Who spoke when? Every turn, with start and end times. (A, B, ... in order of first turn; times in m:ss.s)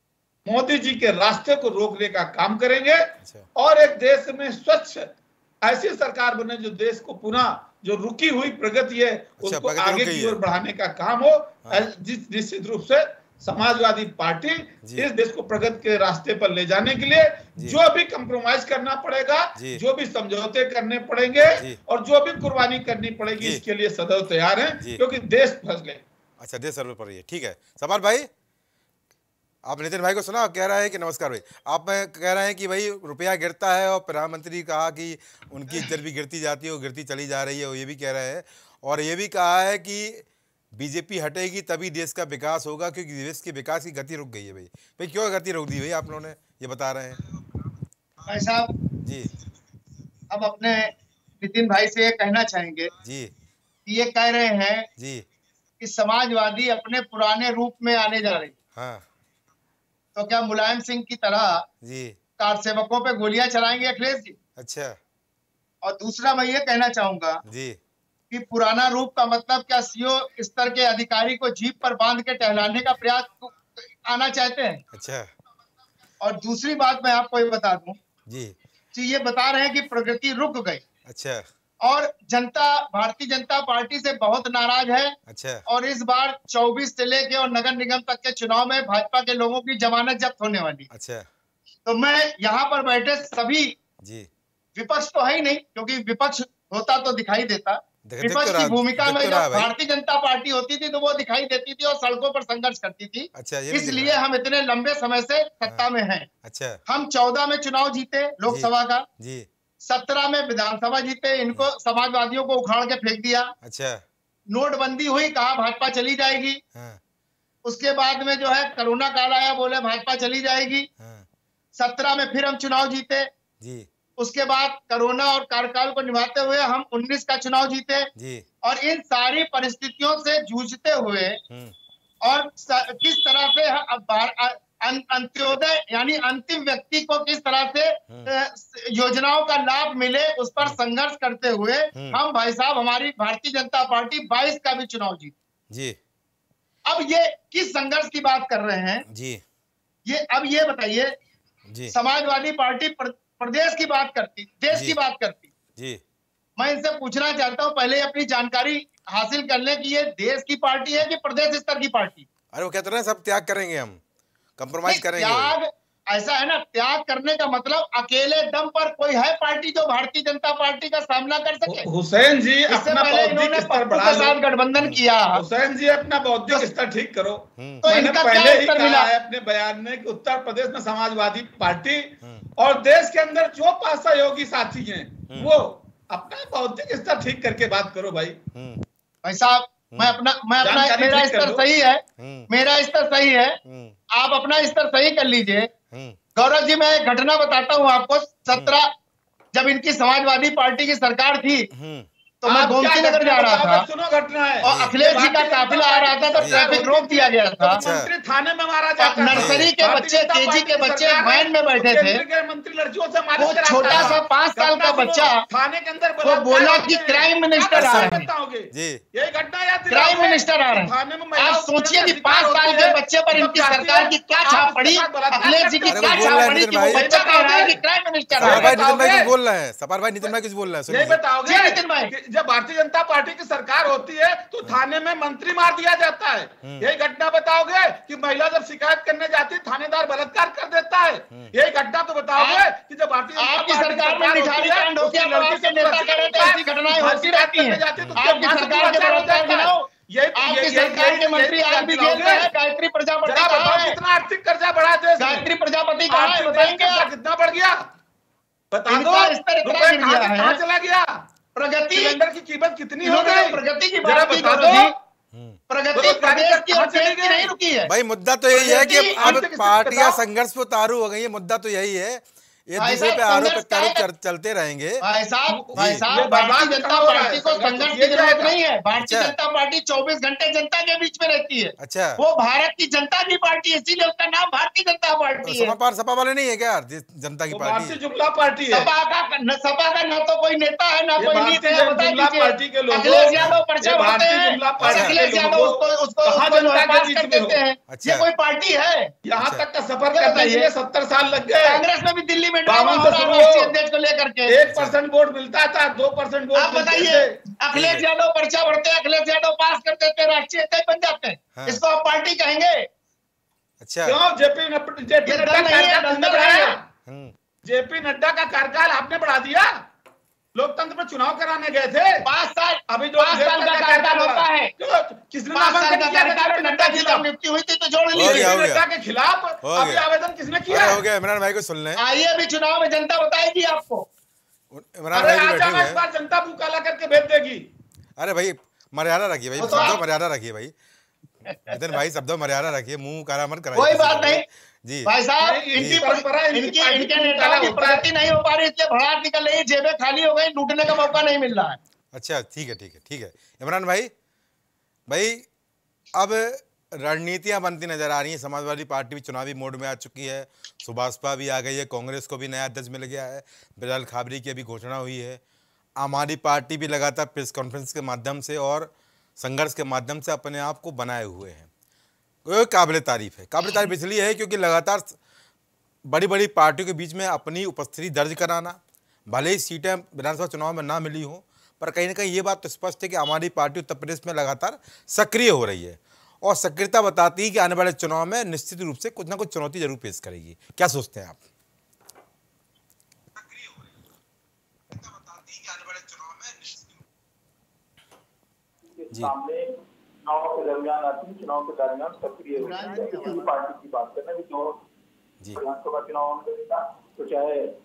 0:00.5-0:26.0 A
0:03.2-0:03.5 B
0:09.4-0:10.4 B
0:26.4-0:28.3 B
0:29.6-0:47.3 B
0:48.3-0:48.7 C
0:49.0-0:49.3 B
0:50.3-0:52.9 C
0:53.0-0:53.3 B
0:53.9-0:54.9 C
0:55.0-0:55.2 B
0:55.8-0:58.5 C
0:58.8-0:59.1 B
1:00.2-1:01.6 C
1:01.8-1:02.2 B
1:02.4-1:04.4 C
1:04.6-1:05.0 B
1:05.8-1:07.4 C
1:07.4-1:07.8 B
1:08.3-1:13.5 C
1:14.0-1:14.8 C
1:14.9-1:15.3 B
1:16.2-1:18.0 C
1:18.3-1:18.6 B
1:18.9-1:20.8 C
1:21.1-1:21.4 B
1:21.8-1:25.2 C
1:25.3-1:25.6 B
1:25.7-1:30.9 C
1:30.9-1:31.3 B
1:31.9-1:33.8 C
1:34.0-1:34.3 B
1:34.8-1:46.3 C
1:38.1-1:39.7 B
1:43.4-1:44.2 B
1:46.4-1:46.8 B
1:46.9-1:49.1 C
1:48.5-1:49.5 B
1:49.8-1:53.5 C
1:53.6-1:54.0 B
1:54.5-1:56.6 C
1:56.8-1:57.0 B
1:57.6-2:00.9 C
2:01.0-2:01.3 B
2:01.8-2:03.3 C
2:03.6-2:03.9 B
2:04.2-2:08.1 C
2:08.2-2:08.5 B
2:08.6-2:11.4 C
2:11.5-2:11.8 B
2:12.2-2:25.3 C
2:25.7-2:26.0 B
2:26.9-2:29.0 C
2:29.1-2:29.4 B
2:30.1-2:31.1 C
2:31.7-2:31.9 B
2:31.9-2:35.5 C
2:34.7-2:35.0 B
2:35.8-2:36.0 B
2:36.6-2:42.3 C
2:42.5-2:44.0 B
2:44.6-2:45.6 B
2:44.9-2:51.9 C
2:51.7-2:54.4 A
2:52.7-2:55.4 C
2:54.8-2:55.0 B
2:55.3-3:08.4 A
2:57.6-2:57.8 B
2:57.8-2:59.1 C
3:08.5-3:08.8 B
3:09.2-3:13.6 C
3:09.9-3:10.2 B
3:10.6-3:11.6 A
3:12.2-3:12.5 B
3:13.6-3:14.0 B
3:14.1-3:15.7 C
3:15.9-3:16.2 B
3:16.4-3:18.9 C
3:19.5-3:21.7 C
3:21.7-3:22.1 B
3:22.4-3:23.9 C
3:22.5-3:47.8 A
3:24.6-3:27.8 C
3:24.6-3:25.0 B
3:27.8-3:28.1 B
3:29.0-3:32.2 C
3:29.3-3:29.7 B
3:33.4-3:35.4 C
3:33.9-3:34.2 B
3:36.2-3:38.3 C
3:37.8-3:38.1 B
3:38.7-3:39.0 B
3:39.9-3:48.7 C
3:45.9-3:47.0 B
3:48.3-3:51.2 B
3:48.4-3:49.3 A
3:50.9-4:12.5 A
3:51.5-3:52.1 C
4:02.4-4:02.7 C
4:03.4-4:14.0 C
4:08.0-4:08.2 B
4:13.3-4:15.5 A
4:15.2-4:17.1 C
4:16.1-4:17.9 A
4:18.7-4:21.2 A
4:18.9-4:20.6 C
4:21.6-4:22.2 C
4:21.9-4:25.0 A
4:23.0-4:24.9 C
4:25.3-4:25.6 B
4:25.7-4:27.9 C
4:26.0-4:27.5 A
4:27.9-4:35.0 B
4:28.6-4:30.2 A
4:28.7-4:29.4 C
4:32.8-4:34.1 C
4:35.0-4:45.8 C
4:35.5-4:38.6 A
4:35.8-4:36.0 B
4:39.0-4:39.4 B
4:41.8-4:42.2 B
4:45.4-4:48.0 B
4:47.5-4:48.9 A
4:48.7-4:59.1 C
4:51.2-4:57.6 A
4:54.8-4:55.2 B
4:57.9-4:58.3 B
4:59.2-5:01.8 A
4:59.4-4:59.6 B
5:00.1-5:00.7 C
5:01.6-5:04.6 C
5:02.7-5:03.8 A
5:04.5-5:07.4 A
5:04.7-5:05.0 B
5:06.6-5:12.9 C
5:07.7-5:08.0 B
5:11.6-5:11.8 B
5:13.8-5:14.2 B
5:14.0-5:16.8 A
5:15.3-5:16.8 C
5:17.1-5:17.3 B
5:17.6-5:19.8 A
5:20.6-5:22.3 A
5:22.2-5:24.7 C
5:22.9-5:27.2 A
5:25.6-5:28.5 C
5:28.1-5:28.8 B
5:28.2-5:31.0 A
5:29.6-5:30.0 B
5:30.7-5:32.0 B
5:32.0-5:34.1 C
5:34.7-5:36.0 B
5:35.1-5:37.7 A
5:38.2-5:40.7 B
5:39.6-5:40.0 C
5:39.6-5:39.9 A
5:41.5-5:41.8 C
5:41.7-5:45.1 B
5:43.8-5:44.4 C
5:45.1-5:51.8 C
5:45.4-5:48.1 A
5:45.8-5:46.0 B
5:52.1-5:54.1 B
5:55.1-5:55.5 B
5:56.1-6:05.4 B
6:06.0-6:11.7 B
6:12.4-6:15.2 B
6:16.0-6:31.4 B
6:33.4-6:33.8 B
6:34.9-6:36.9 B
6:38.9-6:44.8 D
6:42.6-6:43.5 C
6:45.5-6:47.7 D